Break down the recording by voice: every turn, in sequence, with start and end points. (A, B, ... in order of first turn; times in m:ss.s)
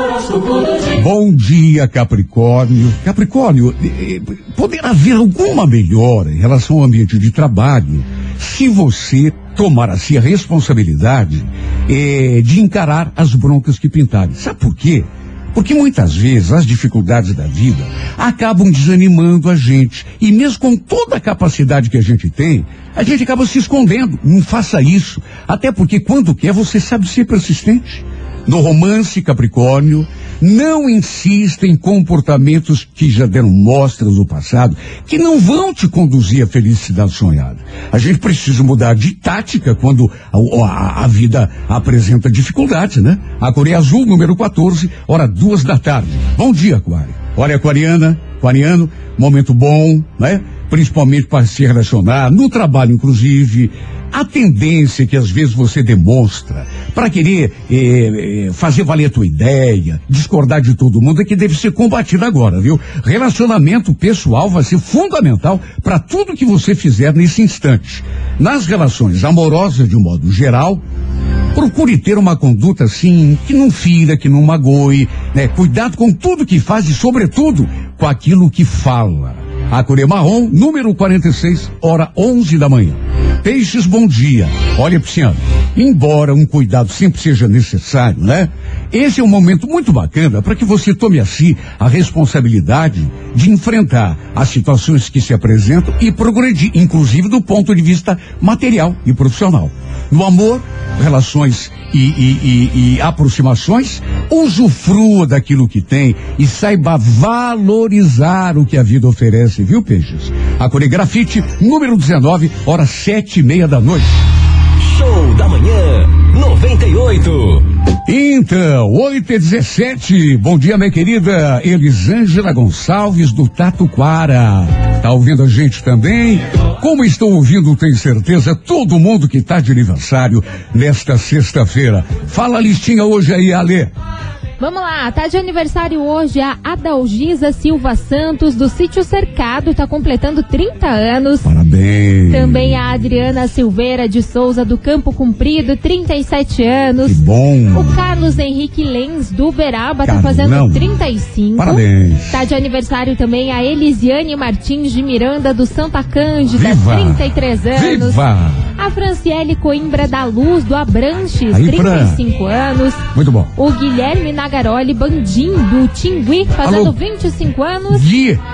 0:00.8-1:10.8 A
1:11.5-1:54.3 A
1:54.8-1:57.7 B
1:58.0-2:13.9 A
2:14.6-2:21.5 C
2:21.4-2:22.8 A
2:22.3-2:27.2 C
2:27.0-2:28.0 A
2:27.7-2:38.2 C
2:30.0-2:30.9 A
2:31.6-2:32.4 A
2:36.5-2:38.7 A
2:38.7-2:43.0 C
2:41.5-2:42.2 A
2:43.1-2:43.5 A
2:43.6-2:48.0 C
2:46.6-2:46.9 A
2:47.9-2:48.4 A